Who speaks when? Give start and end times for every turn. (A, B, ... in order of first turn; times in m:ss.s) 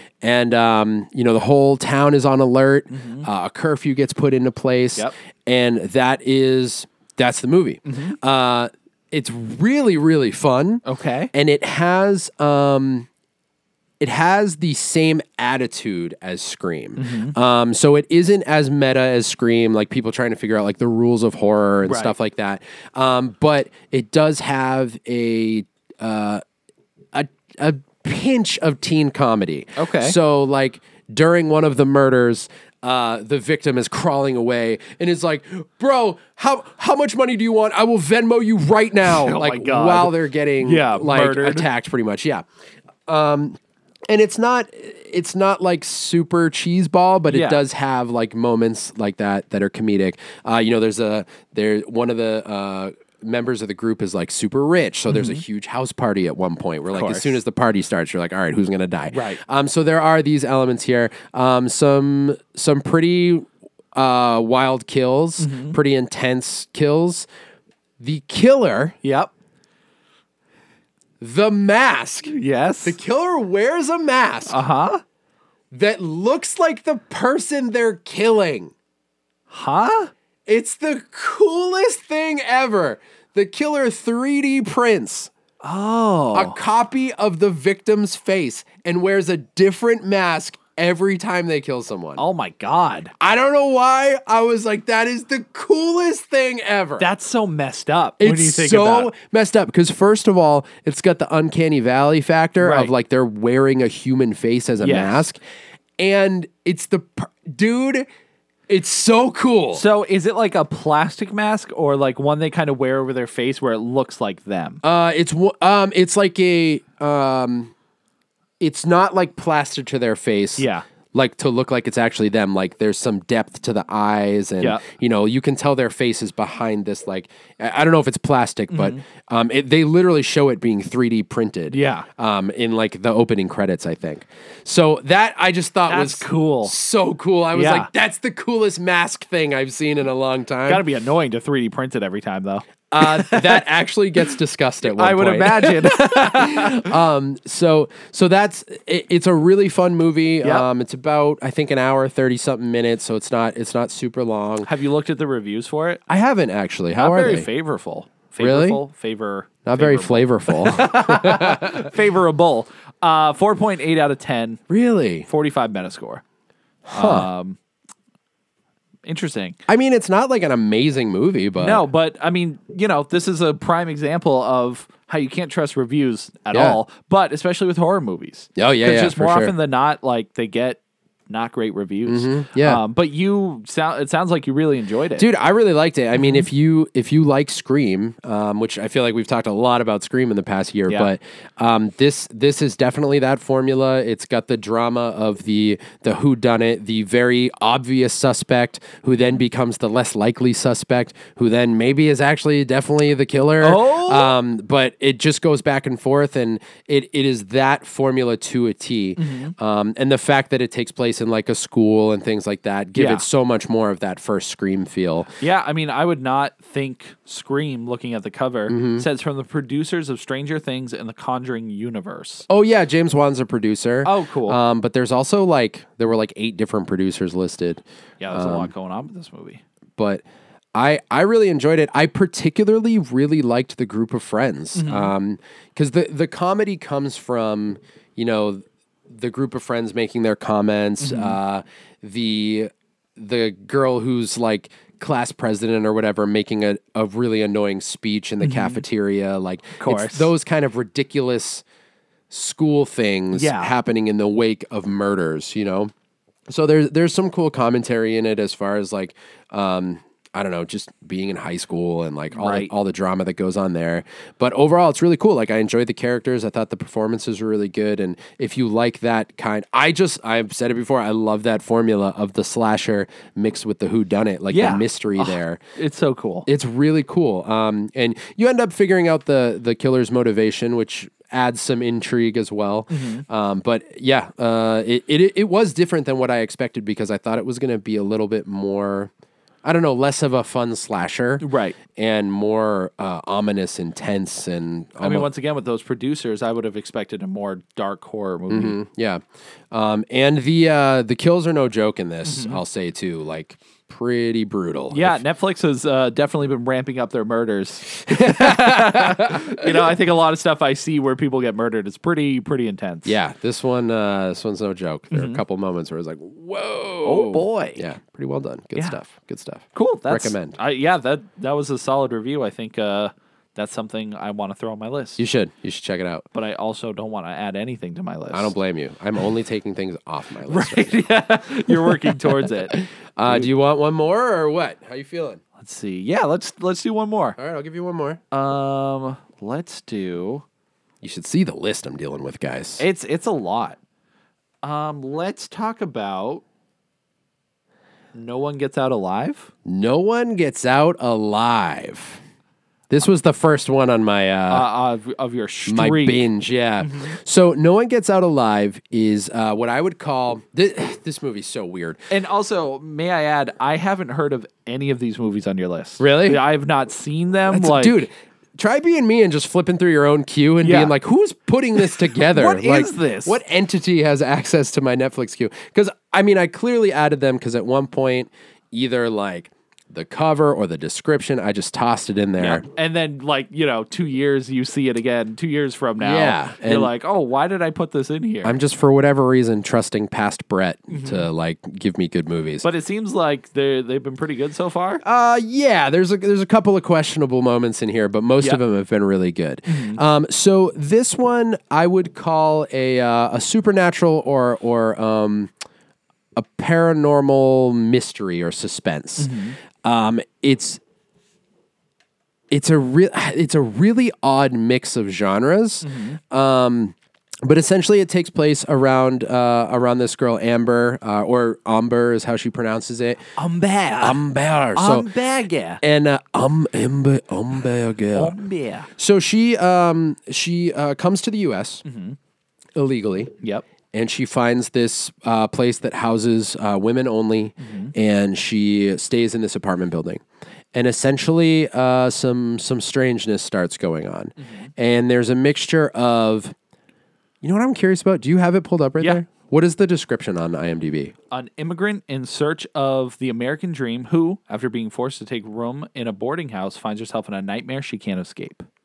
0:00.2-0:13.1 A
0:02.9-0:03.3 B
0:07.8-0:08.2 B
0:10.8-0:11.3 B
0:14.0-0:26.4 A
0:17.0-0:17.3 B
0:21.8-0:22.1 B
0:27.1-0:42.4 A
0:29.8-0:30.2 B
0:39.0-0:41.7 B
0:43.1-0:43.6 A
0:44.1-1:07.3 A
0:47.3-0:47.6 B
0:55.1-0:55.4 B
0:56.9-0:57.4 B
0:59.1-0:59.4 B
1:05.4-1:05.8 B
1:08.0-1:09.0 A
1:09.0-1:09.3 B
1:11.2-1:14.6 A
1:12.3-1:13.0 B
1:14.5-1:15.0 B
1:15.7-1:18.7 A
1:19.5-1:20.1 B
1:20.5-1:25.3 A
1:25.6-1:26.6 B
1:26.3-1:32.2 A
1:32.2-1:33.1 B
1:33.2-1:37.1 A
1:37.0-1:39.1 B
1:38.2-1:45.4 A
1:42.6-1:42.9 B
1:44.8-1:45.2 B
1:46.0-1:48.1 A
1:48.7-1:49.8 A
1:49.7-1:54.8 B
1:54.8-1:57.7 A
1:58.6-2:20.8 A
2:00.6-2:00.8 B
2:08.7-2:09.0 B
2:11.7-2:12.1 B
2:15.9-2:16.7 B
2:17.5-2:17.9 B
2:20.7-2:23.6 B
2:22.9-2:34.7 A
2:24.8-2:26.9 B
2:30.4-2:30.7 B
2:34.6-2:36.0 B
2:36.1-2:37.5 A
2:37.0-2:44.6 B
2:38.4-2:38.8 A
2:39.6-2:41.9 A
2:44.7-2:45.2 A
2:45.2-2:46.2 B
2:46.9-2:47.3 A
2:46.9-2:47.6 B
2:49.0-2:49.6 B
2:49.7-2:51.8 A
2:51.6-3:05.3 B
2:56.5-2:56.8 A
2:58.6-2:59.5 A
3:02.0-3:02.8 A
3:05.2-3:35.3 A
3:06.2-3:06.4 B
3:23.6-3:24.3 B
3:29.2-3:29.5 B
3:32.9-3:33.2 B
3:35.4-3:42.5 B
3:38.7-3:39.0 A
3:42.5-3:48.7 A
3:44.0-3:44.6 B
3:48.2-3:49.6 B
3:50.0-3:50.2 A
3:50.7-4:11.6 A
3:54.7-3:55.1 B
4:01.0-4:01.4 B
4:08.4-4:08.8 B
4:09.8-4:10.3 B
4:12.3-4:15.9 A
4:13.3-4:13.7 B
4:16.5-4:35.6 A
4:22.3-4:22.7 B
4:34.5-4:36.5 B
4:36.4-4:49.1 A
4:42.9-4:43.2 B
4:49.6-4:55.3 A
4:51.4-4:51.8 B
4:55.0-4:58.8 B
4:58.5-5:05.2 A
5:02.2-5:02.6 B
5:04.9-5:13.2 B
5:08.0-5:09.9 A
5:13.0-5:20.6 A
5:15.1-5:15.4 B
5:17.0-5:17.9 B
5:19.7-5:25.2 B
5:25.2-5:26.2 A
5:26.3-5:28.5 B
5:28.3-5:31.0 A
5:30.5-5:33.5 B
5:31.7-5:31.9 A
5:32.7-5:35.4 A
5:35.6-5:37.4 B
5:37.4-5:38.2 A
5:38.3-5:40.4 B
5:41.0-5:42.8 A
5:42.8-5:43.8 B
5:44.6-5:46.4 B
5:48.1-5:49.5 B
5:49.6-5:52.2 A
5:52.9-5:54.7 A
5:54.5-5:56.2 B
5:55.7-6:02.0 A
5:56.8-5:57.2 B
6:02.1-6:08.0 B
6:06.0-6:06.4 A
6:07.5-6:22.6 A
6:10.6-6:10.9 B
6:11.8-6:13.4 B
6:22.4-6:28.6 B
6:26.0-6:26.9 A
6:28.4-6:32.6 A
6:30.9-6:31.3 B
6:32.6-6:35.0 B
6:35.0-6:45.5 A
6:39.7-6:40.0 B
6:46.4-6:50.8 A
6:49.2-6:49.6 B
6:52.5-7:03.2 A
6:55.8-6:56.2 B
7:03.4-7:04.2 B
7:04.0-7:05.1 A
7:04.7-7:05.8 B
7:05.8-7:08.3 A
7:08.1-7:08.9 B
7:09.0-7:11.8 A
7:11.8-7:12.2 B
7:12.8-7:13.3 A
7:13.9-7:20.2 A
7:17.6-7:17.9 B
7:20.7-7:26.5 A
7:24.4-7:24.7 B
7:27.4-7:31.1 A
7:31.3-7:38.6 B